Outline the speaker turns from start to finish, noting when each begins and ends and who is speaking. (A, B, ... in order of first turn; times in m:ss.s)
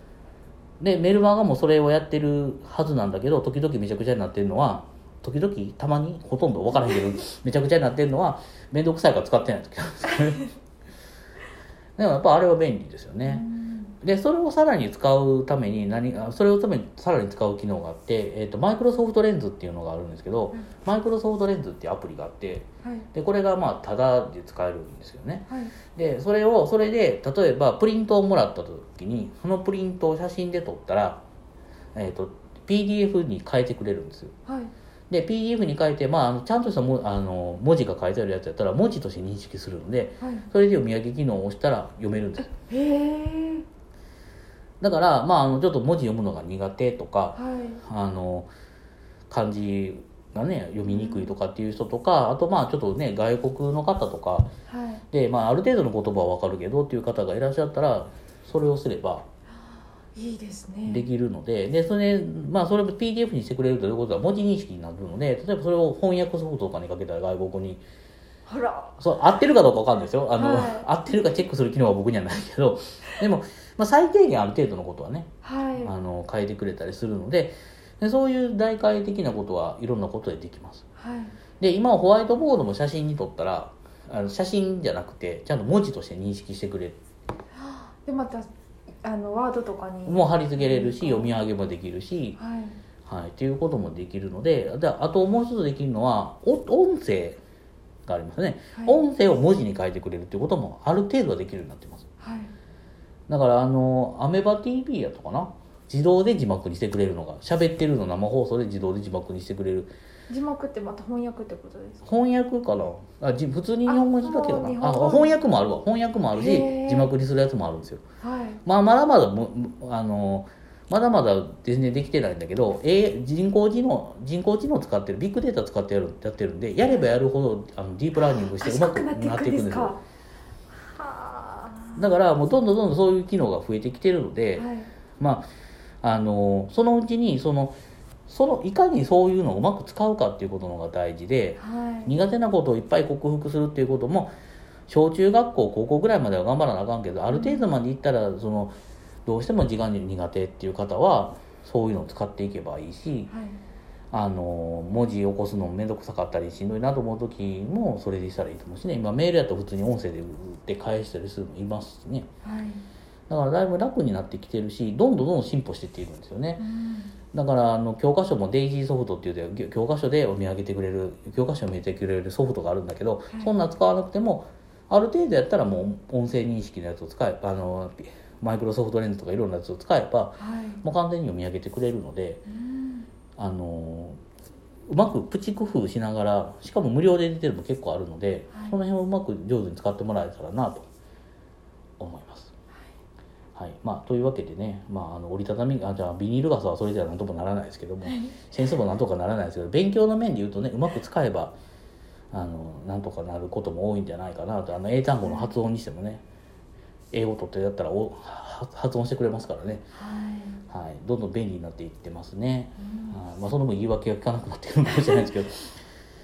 0:00.8-0:10.5 A
0:12.0-0:13.4 A
0:13.2-0:13.9 B
0:14.0-0:31.2 A
0:25.5-0:25.7 B
0:31.9-0:34.3 A
0:34.5-0:34.7 B
0:35.1-0:42.5 A
0:40.2-0:40.5 B
0:42.5-0:43.6 B
0:44.8-0:48.5 A
0:47.4-0:47.8 B
0:49.3-0:54.5 A
0:50.9-0:51.3 B
0:54.7-0:55.0 B
0:55.1-0:59.2 A
1:00.1-1:01.0 B
1:00.8-1:07.8 A
1:08.4-1:09.0 B
1:09.0-1:15.3 A
1:10.4-1:10.9 B
1:15.4-1:15.9 B
1:15.8-1:20.8 A
1:21.0-1:21.3 B
1:21.6-1:27.0 A
1:27.5-1:28.5 B
1:29.0-1:31.3 B
1:30.0-1:32.4 A
1:32.4-1:32.8 B
1:33.0-1:37.4 A
1:38.0-1:42.0 A
1:42.2-1:42.5 B
1:43.3-1:49.9 A
1:50.3-1:52.0 B
1:52.0-1:58.0 A
1:53.8-1:55.3 B
1:56.4-1:57.1 B
1:58.2-1:58.6 B
1:58.6-2:10.0 A
2:06.8-2:07.1 B
2:08.5-2:10.0 B
2:10.7-2:12.1 B
2:12.0-2:14.7 A
2:14.6-2:14.9 B
2:15.2-2:15.5 A
2:16.0-2:17.8 A
2:18.3-2:24.3 A
2:21.6-2:22.1 B
2:24.9-2:28.7 A
2:27.3-2:27.7 B
2:29.2-2:33.3 A
2:33.3-2:33.6 B
2:34.1-2:42.3 A
2:42.4-2:42.8 B
2:43.3-2:46.6 A
2:46.6-2:47.1 B
2:47.3-3:02.4 A
3:00.4-3:00.8 B
3:02.5-3:03.1 B
3:03.4-3:04.2 A
3:04.9-3:10.9 A
3:08.5-3:08.8 B
3:12.0-3:12.5 A
3:13.6-3:21.5 A
3:18.0-3:18.4 B
3:22.3-3:26.2 A
3:25.2-3:25.5 B
3:27.1-3:29.9 A
3:29.9-3:30.6 B
3:30.7-3:35.7 A
3:32.8-3:33.2 B